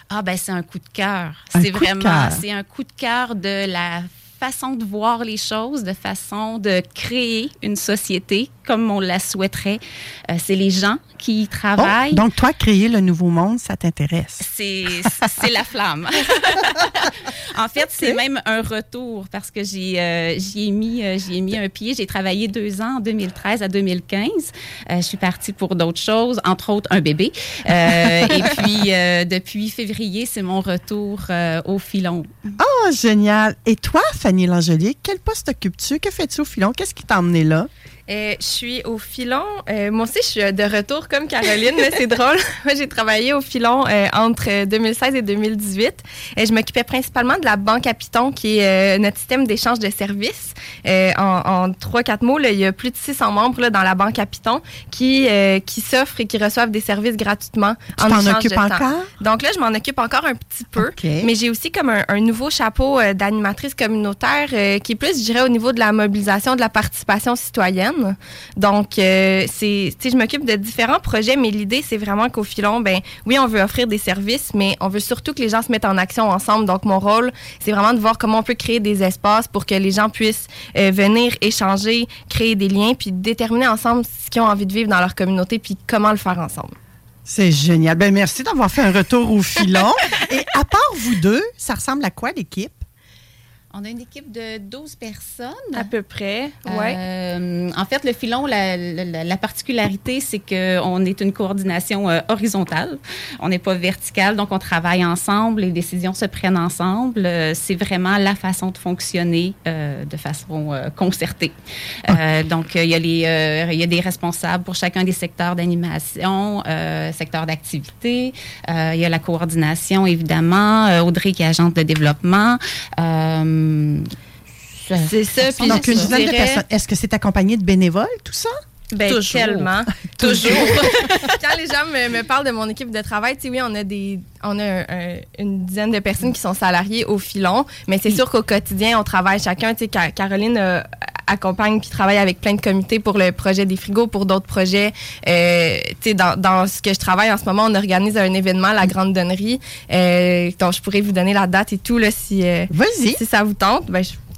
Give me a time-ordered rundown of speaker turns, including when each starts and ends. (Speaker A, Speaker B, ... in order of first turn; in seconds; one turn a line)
Speaker A: 0.1-12.2
Speaker B: 1.5-2.4
Speaker B: 11.8-14.4
Speaker A: 14.4-32.5
Speaker B: 28.0-28.4
Speaker B: 32.6-37.7
Speaker C: 38.1-86.7
Speaker B: 58.0-59.1
Speaker B: 60.7-61.3
Speaker B: 87.2-92.8
Speaker A: 93.7-95.9
Speaker C: 95.7-97.0
Speaker A: 96.6-124.1
Speaker A: 124.9-126.2
Speaker C: 125.0-126.6
Speaker B: 125.6-128.5
Speaker A: 128.9-129.7
Speaker C: 129.0-154.2
Speaker B: 129.1-129.5
Speaker B: 130.1-131.1
Speaker A: 130.2-130.7
Speaker B: 152.7-153.2